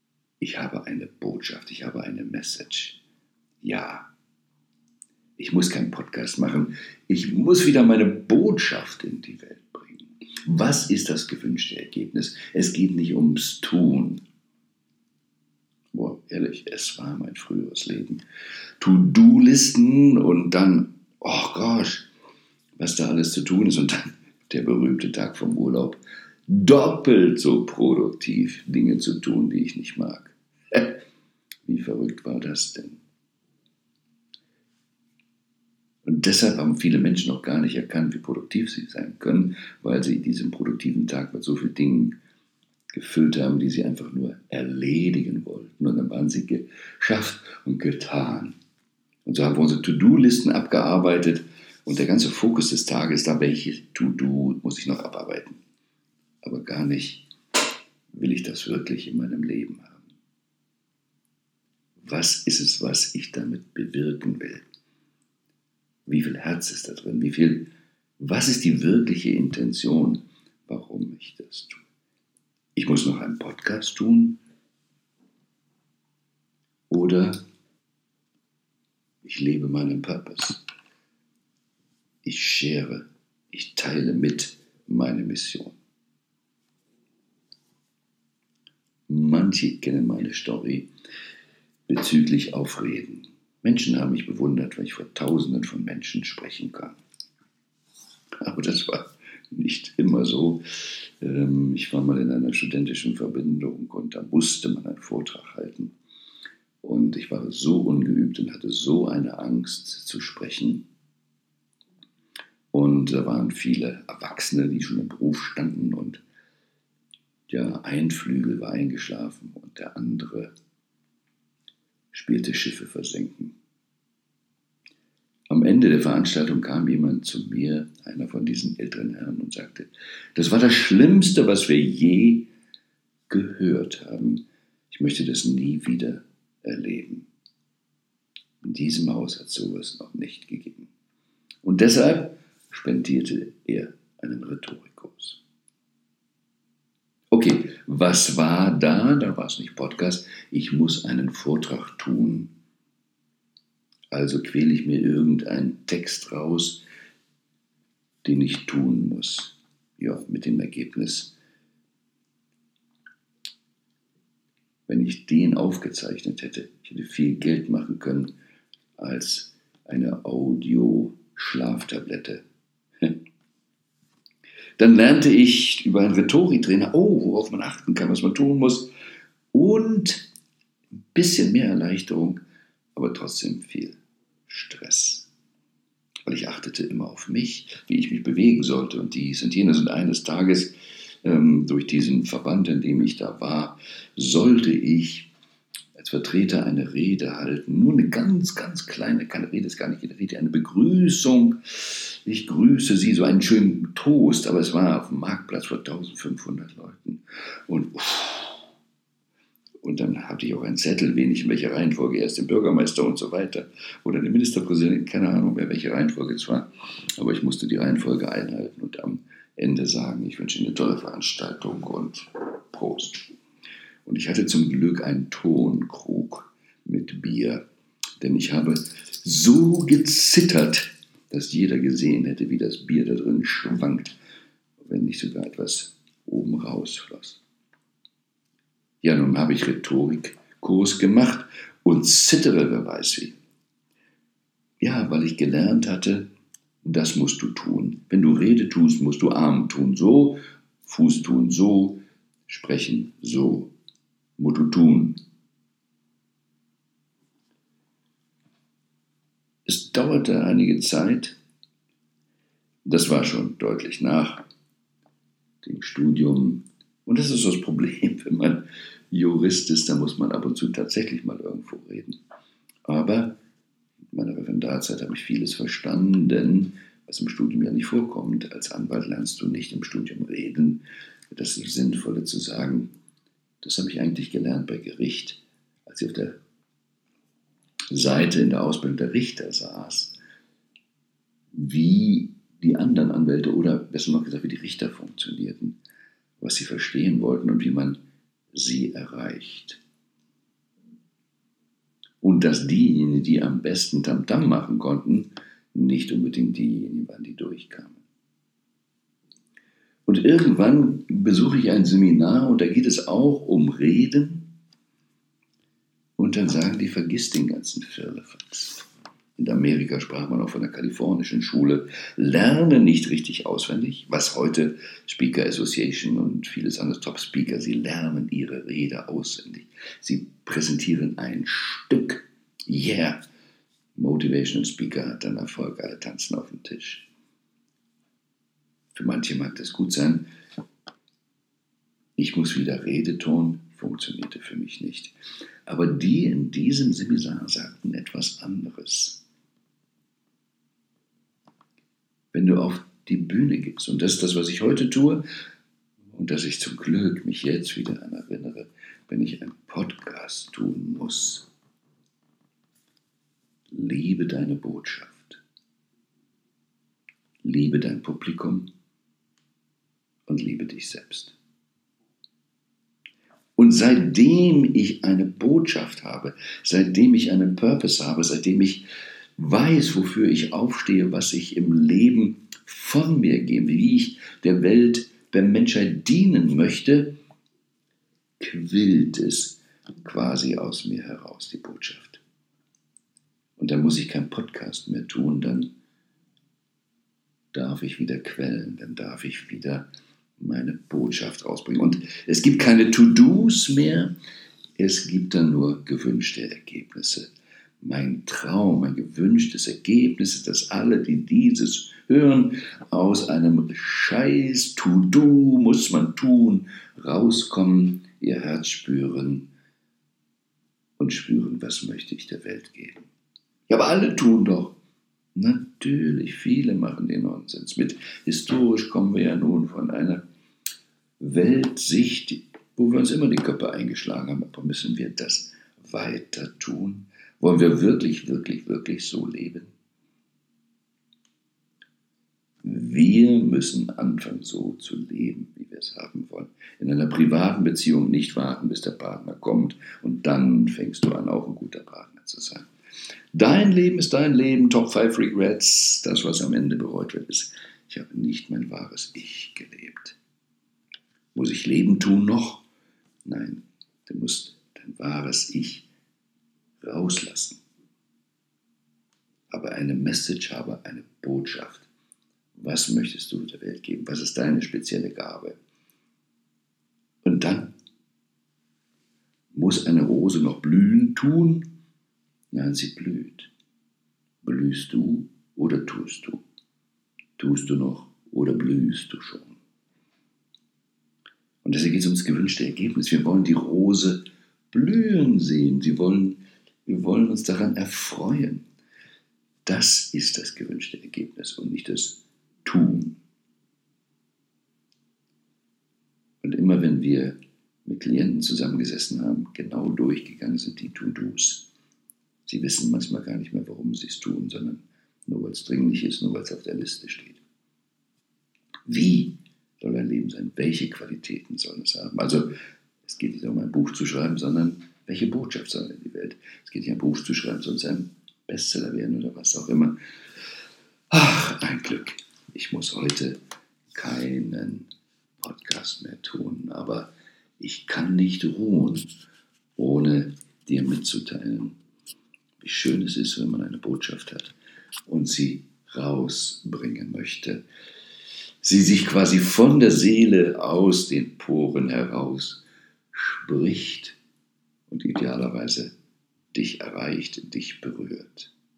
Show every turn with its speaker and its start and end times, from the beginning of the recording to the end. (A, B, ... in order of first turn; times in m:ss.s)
0:00.4-0:03.0 A
0:03.6-0:04.1 A
0:05.4-0:14.2 A
0:15.9-0:18.2 A
0:18.8-0:22.1 A
0:22.8-0:31.0 A
0:31.7-0:33.0 A
0:36.0-0:42.2 A
0:42.9-0:48.6 A
0:49.2-0:55.6 A
0:56.4-0:57.3 A
0:58.1-1:00.0 A
1:02.0-1:04.6 A
1:06.1-1:11.8 A
1:12.8-1:14.4 A
1:16.9-1:17.4 A
1:19.2-1:20.6 A
1:22.2-1:25.8 A
1:29.1-1:30.9 A
1:31.9-1:37.0 A
1:38.4-1:45.9 A
1:46.8-1:50.8 A
1:52.7-1:56.2 A
1:57.5-2:00.5 A
2:02.1-2:03.5 A
2:05.5-2:12.5 A
2:13.3-2:17.3 A
2:18.6-2:20.9 A
2:21.6-2:25.4 A
2:27.3-2:32.5 A
2:34.1-2:36.8 A
2:38.2-2:41.3 A
2:44.9-2:48.3 A
2:49.0-2:52.4 A
2:54.8-2:58.9 A
2:59.5-3:00.3 A
3:01.1-3:02.4 A
3:03.0-3:05.3 A
3:06.2-3:15.3 A
3:16.0-3:28.6 A
3:29.8-3:43.3 A
3:44.0-3:47.6 A
3:48.2-3:54.1 A
3:54.8-3:57.4 A
3:59.0-4:03.4 A
4:04.8-4:06.3 A
4:06.8-4:13.7 A
4:14.4-4:15.2 A
4:19.6-4:21.4 A
4:22.8-4:24.4 A
4:25.6-4:32.2 A
4:32.8-4:33.4 A
4:34.1-4:42.9 A
4:43.6-4:46.4 A
4:47.9-4:50.2 A
4:51.5-4:55.8 A
4:56.4-4:58.0 A
4:58.5-4:59.8 A
5:02.2-5:08.0 A
5:10.1-5:14.5 A
5:16.2-5:33.2 A
5:33.9-5:37.1 A
5:38.9-5:40.3 A
5:42.2-5:45.1 A
5:45.6-5:49.2 A
5:52.3-5:55.2 A
5:56.1-6:01.5 A
6:03.7-6:05.4 A
6:07.4-6:08.7 A
6:10.3-6:11.4 A
6:13.6-6:18.8 A
6:19.4-6:27.2 A
6:28.4-6:32.2 A
6:33.6-6:35.7 A
6:37.5-6:39.9 A
6:40.4-6:44.1 A
6:44.8-6:47.3 A
6:47.8-6:59.5 A
7:01.0-7:03.0 A
7:03.7-7:04.8 A
7:05.3-7:10.2 A
7:11.2-7:19.7 A
7:22.6-7:32.7 A
7:33.3-7:40.2 A
7:41.3-7:42.6 A
7:43.2-7:45.9 A
7:46.8-7:47.6 A
7:49.5-7:51.9 A
7:52.5-7:55.6 A
7:57.2-7:57.7 A
7:59.5-8:01.7 A
8:02.5-8:03.5 A
8:04.4-8:06.4 A
8:07.4-8:09.6 A
8:11.6-8:18.6 A
8:19.6-8:23.2 A
8:26.4-8:31.7 A
8:32.4-8:37.4 A
8:38.9-8:42.5 A
8:43.0-8:50.0 A
8:51.1-8:53.4 A
8:53.9-8:54.9 A
8:55.4-8:59.1 A
8:59.8-9:01.8 A
9:02.6-9:04.5 A
9:05.1-9:07.6 A
9:08.6-9:14.2 A
9:14.9-9:15.9 A
9:16.5-9:18.5 A